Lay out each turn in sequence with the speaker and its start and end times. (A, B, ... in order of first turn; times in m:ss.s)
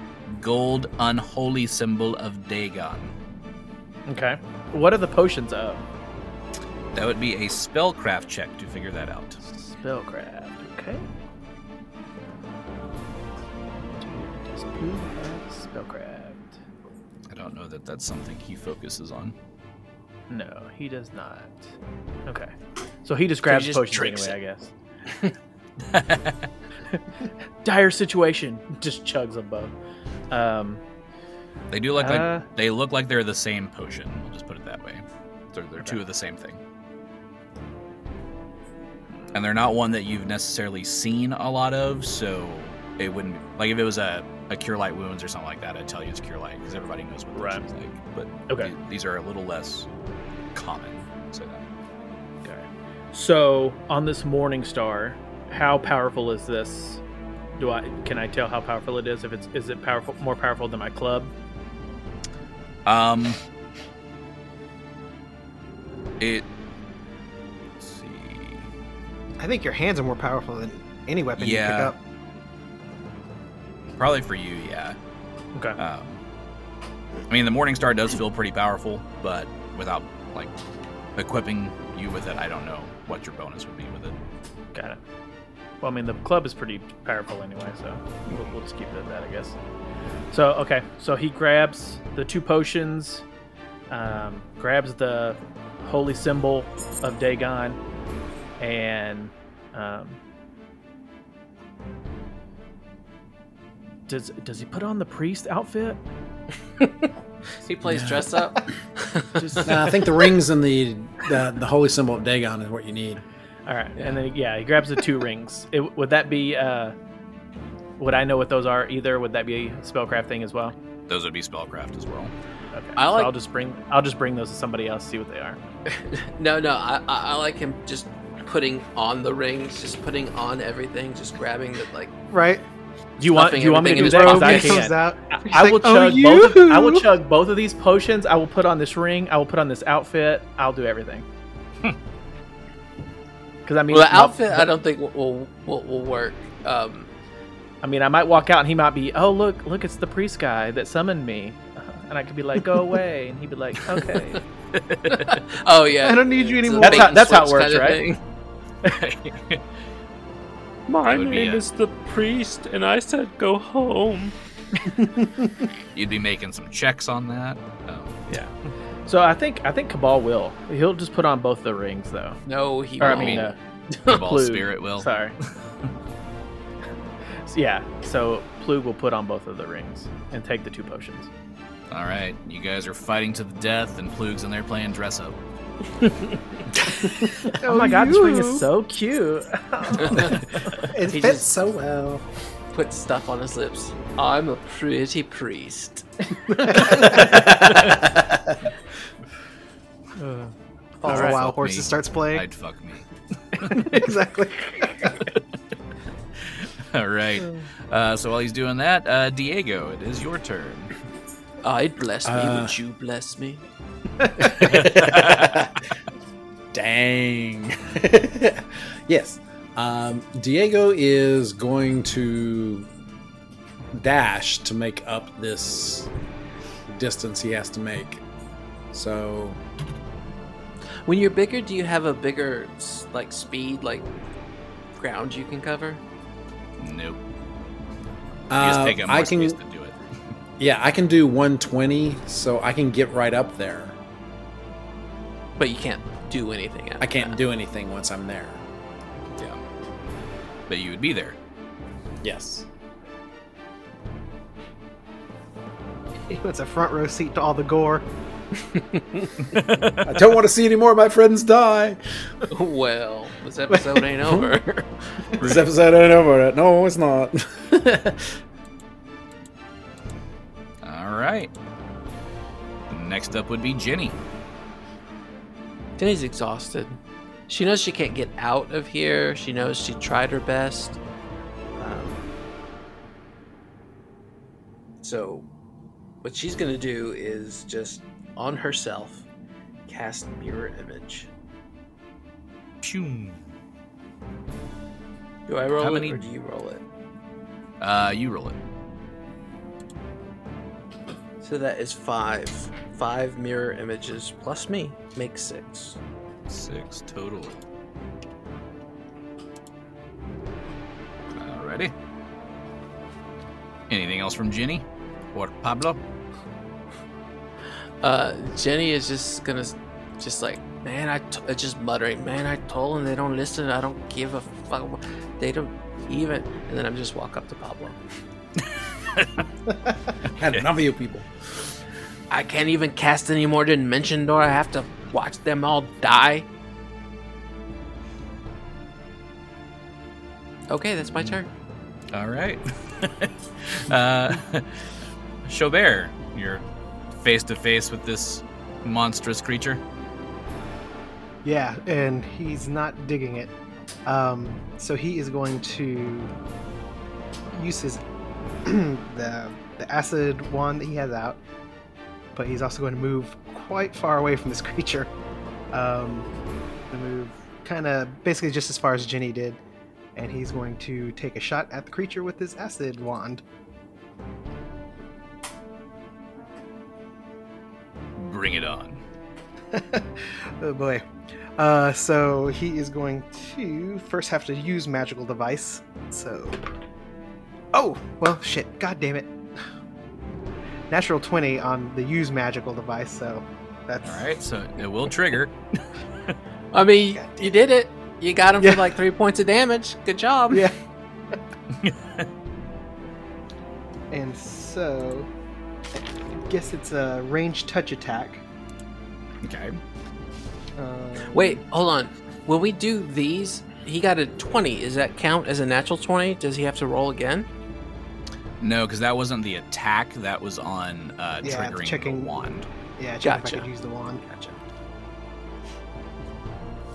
0:00.3-0:03.1 A
0:04.1-0:05.8 B
0:06.9-0:09.4 A
0:09.4-0:11.0 B
0:14.0-0:16.6 B
0:17.3-0:19.3 A
0:20.3-0:21.7 B
0:22.3-0:22.5 B
0:23.0-0:24.7 B
0:23.4-0:24.3 C
0:25.9-0:26.4 A
0:27.6-0:29.7 B
0:30.3-0:30.8 B
0:31.7-0:36.6 A
0:32.0-0:32.4 B
0:39.3-0:49.9 A
0:47.3-0:47.6 B
0:50.5-0:51.6 A
0:52.4-0:57.0 B
0:57.6-1:01.3 B
1:02.9-1:03.4 A
1:06.2-1:06.5 A
1:07.8-1:08.7 A
1:09.4-1:12.0 D
1:11.4-1:11.9 A
1:14.0-1:15.0 A
1:15.8-1:16.2 A
1:17.3-1:20.5 A
1:21.2-1:24.2 A
1:24.7-1:25.0 B
1:25.8-1:29.6 B
1:30.3-1:33.2 B
1:33.9-1:37.8 B
1:38.6-1:40.2 B
1:44.1-1:46.0 B
1:47.6-1:49.7 C
1:47.8-1:48.3 E
1:49.4-1:49.9 B
1:49.6-1:53.2 E
1:53.6-1:56.9 B
1:58.0-2:00.7 B
2:01.1-2:02.3 A
2:02.7-2:05.6 B
2:03.0-2:03.3 C
2:05.9-2:12.1 C
2:12.3-2:12.6 D
2:13.2-2:14.9 C
2:13.2-2:21.2 B
2:13.9-2:17.1 D
2:23.6-2:24.7 B
2:23.9-2:27.1 C
2:27.8-2:34.4 B
2:34.7-2:35.4 A
2:35.1-2:38.2 C
2:36.0-2:37.2 D
2:36.8-2:38.0 B
2:38.9-2:39.6 A
2:40.9-2:44.3 F
2:41.1-2:41.6 A
2:45.9-2:48.3 A
2:49.0-2:52.4 B
2:52.4-2:53.5 C
2:53.0-2:55.4 B
2:53.0-2:53.5 A
2:54.0-2:55.1 A
2:57.4-3:01.3 B
3:01.9-3:05.4 A
3:07.4-3:08.7 D
3:07.6-3:10.8 B
3:10.0-3:10.4 C
3:10.9-3:11.6 D
3:11.1-3:11.5 C
3:11.6-3:12.2 E
3:12.7-3:16.1 C
3:16.5-3:17.3 D
3:16.7-3:17.1 C
3:17.2-3:18.5 E
3:20.2-3:20.5 B
3:21.0-3:22.4 D
3:21.0-3:23.9 A
3:23.7-3:25.2 D
3:26.5-3:30.9 A
3:31.6-3:33.6 C
3:32.2-3:32.7 E
3:34.4-3:35.8 E
3:34.7-3:35.6 A
3:36.7-3:42.9 E
3:43.9-3:46.1 E
3:46.9-3:48.2 E
3:48.9-3:49.6 E
3:51.0-3:54.1 C
3:55.0-3:56.0 C
3:56.8-3:57.2 A
3:58.5-3:59.6 E
3:58.6-4:00.0 A
4:00.6-4:04.0 E
4:05.6-4:07.4 C
4:07.0-4:08.6 E
4:10.7-4:11.4 A
4:12.2-4:12.6 E
4:16.3-4:18.1 D
4:18.7-4:19.0 C
4:19.5-4:20.0 A
4:20.0-4:22.0 E
4:22.5-4:24.9 C
4:25.4-4:28.4 E
4:25.4-4:25.7 A
4:30.8-4:31.5 A
4:32.9-4:34.2 A
4:36.0-4:37.0 C
4:37.5-4:41.0 C
4:41.8-4:42.2 C
4:45.0-4:45.4 C
4:46.2-4:49.2 C
4:49.9-4:51.3 C
4:52.8-4:53.4 A
4:55.5-4:56.8 C
4:55.8-4:56.3 A
4:57.8-4:58.6 A
5:01.4-5:06.0 C
5:06.5-5:07.6 A
5:11.3-5:11.9 A
5:13.9-5:16.0 A
5:18.0-5:28.0 C
5:30.4-5:31.3 E
5:32.3-5:36.4 C
5:40.7-5:41.5 C
5:42.1-5:44.8 A
5:45.4-5:46.6 A
5:47.2-5:49.8 A
5:51.4-5:53.5 D
5:54.0-5:56.3 D
5:57.6-5:58.0 D
5:58.6-6:01.4 D
6:02.3-6:05.1 D
6:05.7-6:06.3 D
6:06.9-6:09.6 D
6:10.2-6:13.4 D
6:18.2-6:19.0 A
6:19.7-6:21.0 D
6:21.6-6:26.6 D
6:27.7-6:29.4 D
6:30.9-6:34.3 D
6:34.0-6:35.6 A
6:36.7-6:40.7 C
6:37.2-6:37.5 D
6:38.6-6:39.0 D
6:41.8-6:42.3 A
6:44.1-6:45.3 D
6:46.5-6:48.4 D
6:49.4-6:49.8 A
6:50.8-6:51.6 D
6:51.3-6:57.5 C
6:58.6-7:02.7 A
7:01.4-7:02.3 D
7:03.0-7:04.3 D
7:03.2-7:03.7 C
7:04.3-7:04.5 C